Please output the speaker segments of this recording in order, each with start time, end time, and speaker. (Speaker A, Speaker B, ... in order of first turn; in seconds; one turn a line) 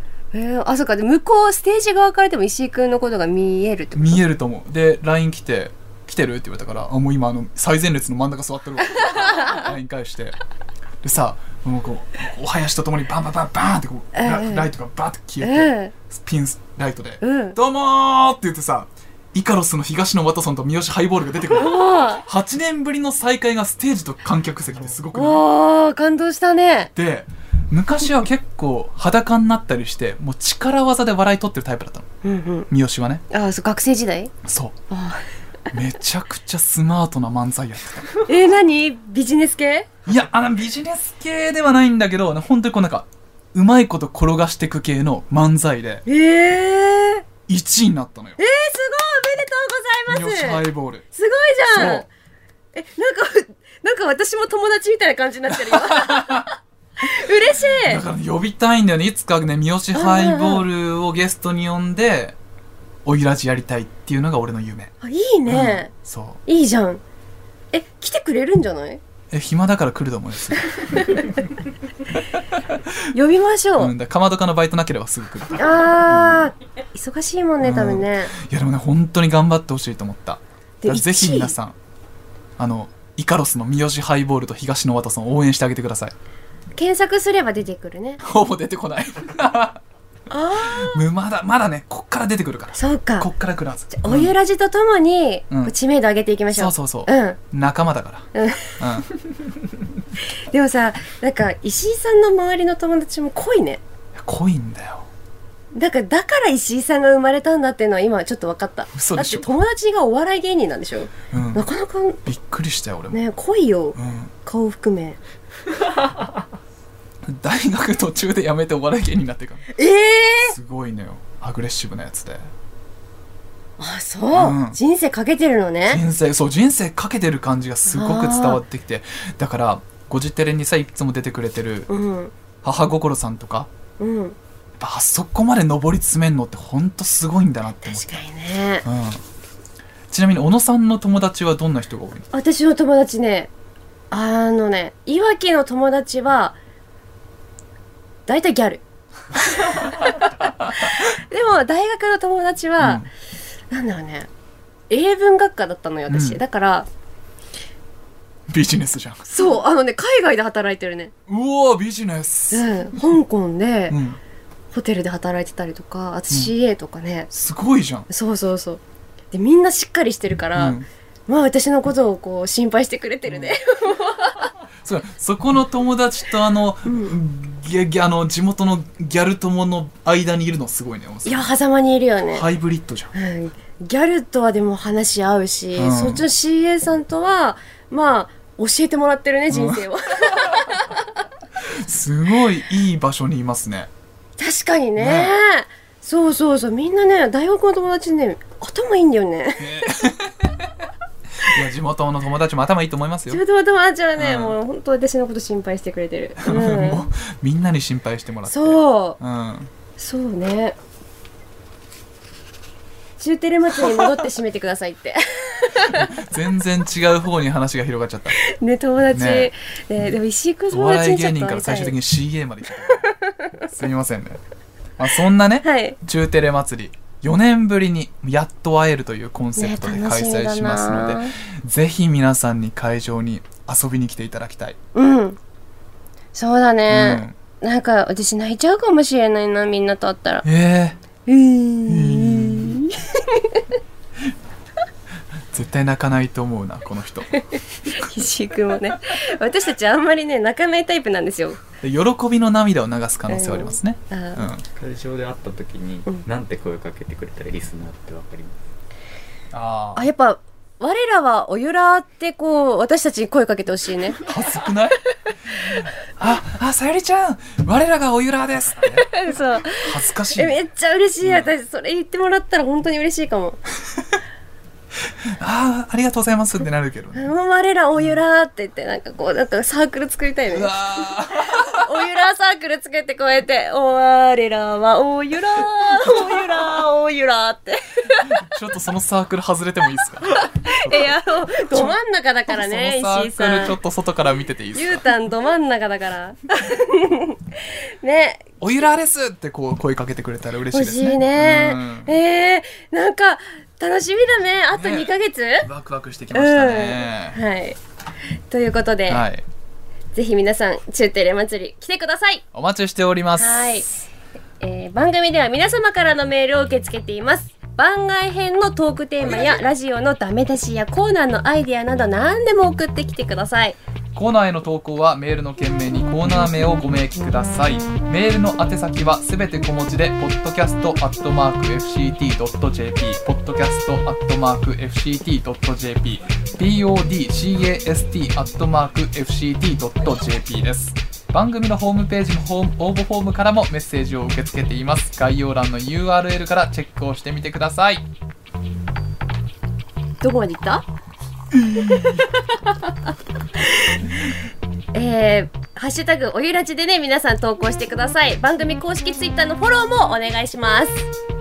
Speaker A: 0.3-4.2
Speaker B: 3.9-10.4
Speaker A: 9.2-9.6
Speaker B: 11.0-25.4
Speaker A: 14.1-14.7
Speaker A: 15.4-15.9
Speaker A: 17.2-17.6
Speaker A: 21.5-22.2
Speaker A: 25.1-26.9
Speaker B: 26.9-32.1
Speaker A: 32.2-32.7
Speaker B: 32.7-33.2
Speaker A: 33.3-34.3
Speaker B: 34.4-34.8
Speaker A: 34.9-35.3
Speaker B: 35.7-38.1
Speaker A: 38.2-39.9
Speaker B: 40.1-46.0
Speaker A: 46.1-47.2
Speaker B: 47.5-48.4
Speaker A: 48.4-52.1
Speaker B: 50.1-51.0
Speaker B: 51.7-52.1
Speaker A: 52.7-58.0
Speaker B: 55.5-56.5
Speaker B: 57.8-62.4
Speaker A: 59.9-60.6
Speaker B: 63.0-64.9
Speaker A: 65.0-65.9
Speaker B: 65.5-66.4
Speaker A: 66.5-67.0
Speaker A: 67.7-69.0
Speaker B: 69.3-71.0
Speaker A: 70.7-71.4
Speaker A: 73.1-73.9
Speaker B: 73.8-76.5
Speaker A: 75.5-78.3
Speaker B: 77.6-81.8
Speaker A: 80.8-81.6
Speaker B: 82.6-86.1
Speaker A: 86.8-88.2
Speaker B: 88.2-89.8
Speaker A: 90.3-91.0
Speaker B: 90.6-94.3
Speaker A: 92.8-93.3
Speaker A: 93.9-97.4
Speaker B: 96.5-99.1
Speaker A: 98.3-98.8
Speaker A: 100.3-103.8
Speaker B: 104.2-105.1
Speaker A: 105.7-112.2
Speaker B: 108.9-109.5
Speaker B: 111.3-111.6
Speaker B: 112.2-113.2
Speaker A: 113.1-115.2
Speaker B: 113.9-114.3
Speaker B: 117.2-119.7
Speaker A: 119.7-120.5
Speaker B: 120.4-122.5
Speaker A: 123.8-126.0
Speaker B: 124.3-124.8
Speaker B: 125.9-131.9
Speaker A: 127.9-128.6
Speaker A: 131.9-132.3
Speaker B: 132.6-133.7
Speaker A: 134.0-134.3
Speaker B: 134.8-138.2
Speaker A: 137.8-138.8
Speaker B: 138.8-139.2
Speaker B: 140.1-142.3
Speaker A: 142.3-143.5
Speaker A: 144.1-146.6
Speaker A: 148.3-148.8
Speaker A: 149.3-153.1
Speaker B: 152.8-153.1
Speaker A: 153.7-154.3
Speaker A: 154.9-156.9
Speaker B: 156.1-156.4
Speaker B: 158.5-159.2
Speaker A: 159.2-161.1
Speaker B: 161.3-162.7
Speaker A: 162.5-164.0
Speaker B: 163.9-164.2
Speaker A: 164.7-167.3
Speaker B: 167.3-168.1
Speaker A: 168.1-168.8
Speaker A: 169.3-174.5
Speaker B: 170.5-170.8
Speaker B: 173.3-173.6
Speaker B: 174.8-181.5
Speaker A: 176.8-177.1
Speaker A: 181.2-182.5
Speaker B: 182.3-183.1
Speaker A: 183.1-191.2
Speaker B: 185.8-186.2
Speaker B: 189.5-190.6
Speaker B: 191.6-193.9
Speaker A: 194.4-199.9
Speaker B: 195.0-195.4
Speaker B: 199.6-200.9
Speaker B: 201.4-203.4
Speaker A: 203.3-207.1
Speaker B: 204.2-204.6
Speaker B: 206.4-209.7
Speaker A: 208.5-209.2
Speaker A: 210.0-210.8
Speaker A: 213.2-216.1
Speaker B: 215.7-218.4
Speaker A: 218.3-221.9
Speaker B: 219.1-219.5
Speaker B: 220.7-223.1
Speaker A: 222.9-223.6
Speaker B: 223.7-224.4
Speaker B: 225.0-234.8
Speaker A: 225.6-226.0
Speaker A: 229.6-231.3
Speaker A: 234.9-235.4
Speaker A: 236.3-240.4
Speaker B: 236.9-237.3
Speaker B: 240.4-241.0
Speaker A: 241.2-243.7
Speaker B: 241.9-242.9
Speaker B: 245.5-247.5
Speaker A: 247.4-251.6
Speaker B: 251.8-254.7
Speaker A: 253.3-254.5
Speaker C: 254.8-258.6
Speaker B: 259.5-260.1
Speaker A: 259.9-264.2
Speaker B: 264.2-265.0
Speaker B: 265.5-269.1
Speaker A: 269.0-273.6
Speaker B: 269.8-270.6
Speaker B: 271.2-271.5
Speaker B: 275.4-277.2
Speaker A: 277.1-288.4
Speaker B: 280.5-281.9
Speaker B: 288.2-291.9
Speaker A: 290.4-293.8
Speaker B: 292.5-295.0
Speaker A: 294.7-298.5
Speaker B: 298.6-302.1
Speaker A: 300.7-305.6
Speaker B: 304.7-307.4
Speaker A: 306.3-307.8
Speaker A: 308.5-309.2
Speaker B: 309.1-309.4
Speaker A: 310.1-312.4
Speaker B: 312.5-314.0
Speaker A: 313.4-313.9
Speaker A: 314.6-323.8
Speaker B: 319.2-319.6
Speaker B: 324.1-348.0
Speaker A: 350.2-350.9
Speaker B: 351.5-352.2
Speaker A: 351.8-352.9
Speaker A: 353.6-354.0
Speaker A: 354.9-361.1